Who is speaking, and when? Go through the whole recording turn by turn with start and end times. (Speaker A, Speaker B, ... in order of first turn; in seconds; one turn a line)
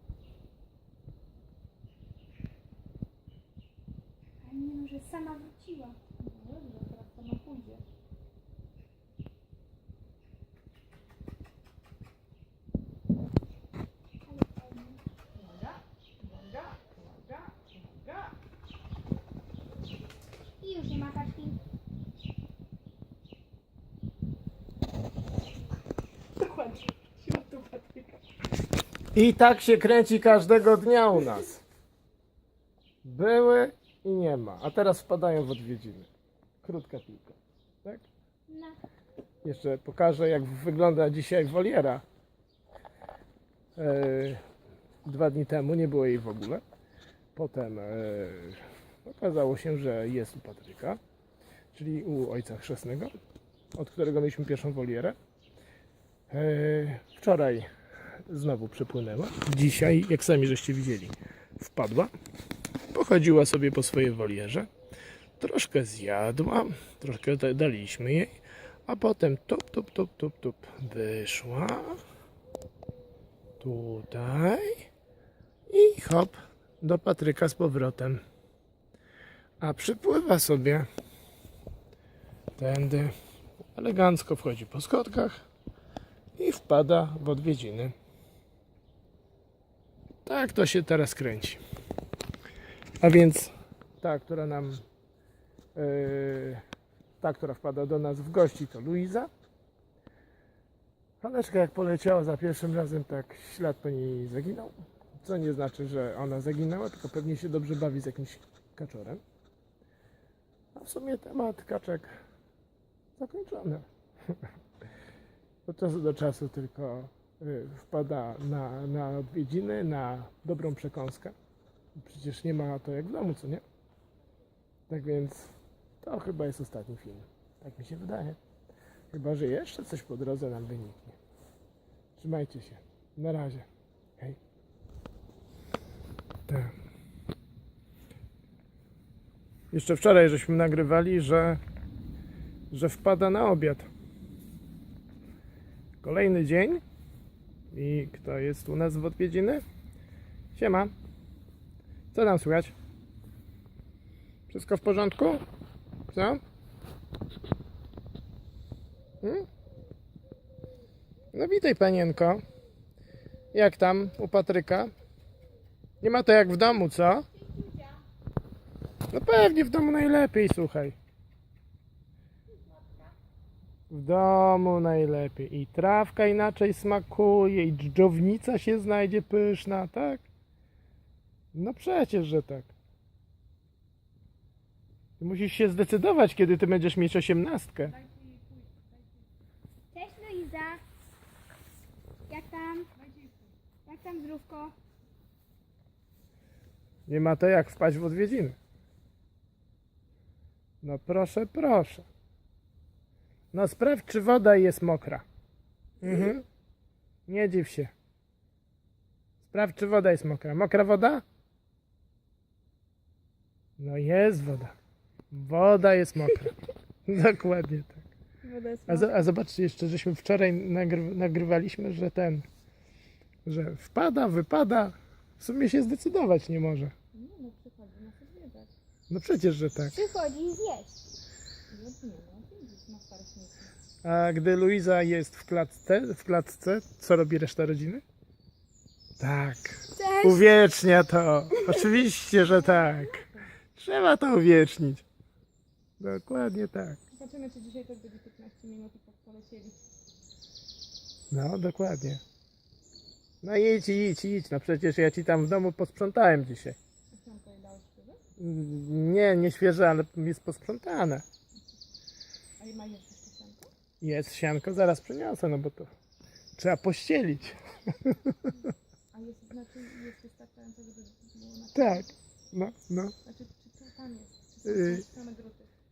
Speaker A: 4.4-6.0
Speaker B: 6.1-7.8
Speaker A: 14.3-15.0
Speaker B: 15.3-18.4
Speaker A: 20.6-21.6
Speaker B: 26.4-28.2
Speaker C: 29.1-31.6
Speaker C: 33.0-36.1
Speaker C: 36.6-38.0
Speaker A: 38.5-38.8
Speaker C: 39.4-42.0
Speaker C: 43.8-44.4
Speaker C: 45.0-46.6
Speaker C: 47.4-51.0
Speaker C: 51.7-53.1
Speaker C: 53.8-55.2
Speaker C: 56.3-57.7
Speaker C: 58.3-62.1
Speaker C: 62.9-64.7
Speaker C: 65.4-68.4
Speaker C: 68.9-72.0
Speaker C: 73.6-74.9
Speaker C: 75.7-78.2
Speaker C: 79.6-80.9
Speaker C: 82.6-83.1
Speaker C: 83.8-85.4
Speaker C: 86.4-87.9
Speaker C: 90.3-91.6
Speaker C: 93.0-94.8
Speaker C: 95.8-96.6
Speaker C: 97.2-99.3
Speaker C: 101.2-109.2
Speaker C: 110.8-112.1
Speaker C: 113.2-114.4
Speaker C: 115.7-121.3
Speaker C: 122.0-123.6
Speaker C: 124.9-128.4
Speaker C: 129.1-131.2
Speaker C: 132.2-133.7
Speaker C: 136.5-136.7
Speaker C: 139.7-141.6
Speaker C: 142.7-143.9
Speaker C: 146.0-146.8
Speaker C: 147.7-149.6
Speaker C: 150.6-150.9
Speaker C: 152.1-152.7
Speaker C: 154.5-155.4
Speaker C: 156.1-156.4
Speaker C: 159.2-159.5
Speaker C: 161.3-162.4
Speaker C: 163.5-164.9
Speaker C: 166.0-167.2
Speaker C: 169.1-171.0
Speaker C: 173.9-180.2
Speaker C: 181.5-182.7
Speaker C: 185.2-187.9
Speaker B: 187.8-189.1
Speaker A: 189.9-190.8
Speaker A: 192.3-192.9
Speaker B: 193.0-193.5
Speaker A: 193.9-194.7
Speaker C: 197.1-198.6
Speaker C: 200.8-202.1
Speaker C: 203.5-205.2
Speaker C: 206.0-206.4
Speaker C: 207.3-207.9
Speaker C: 209.4-211.2
Speaker C: 213.8-214.7
Speaker C: 215.3-218.1
Speaker A: 218.4-219.1
Speaker C: 218.9-222.4
Speaker C: 223.5-226.9
Speaker B: 227.1-228.7
Speaker C: 229.1-229.9
Speaker A: 229.9-231.0
Speaker B: 231.7-233.7
Speaker C: 234.0-238.0
Speaker C: 239.2-243.2
Speaker A: 239.9-240.4
Speaker A: 241.5-241.8
Speaker B: 242.4-243.5
Speaker C: 243.8-245.1
Speaker C: 246.0-247.0
Speaker B: 247.1-249.8
Speaker C: 251.3-252.2
Speaker C: 253.4-256.8
Speaker B: 257.1-258.2
Speaker C: 258.4-261.2
Speaker B: 262.6-263.7
Speaker C: 264.0-265.9
Speaker C: 266.6-268.3
Speaker B: 269.1-272.1
Speaker C: 271.8-273.1
Speaker B: 273.2-275.7
Speaker C: 274.7-275.0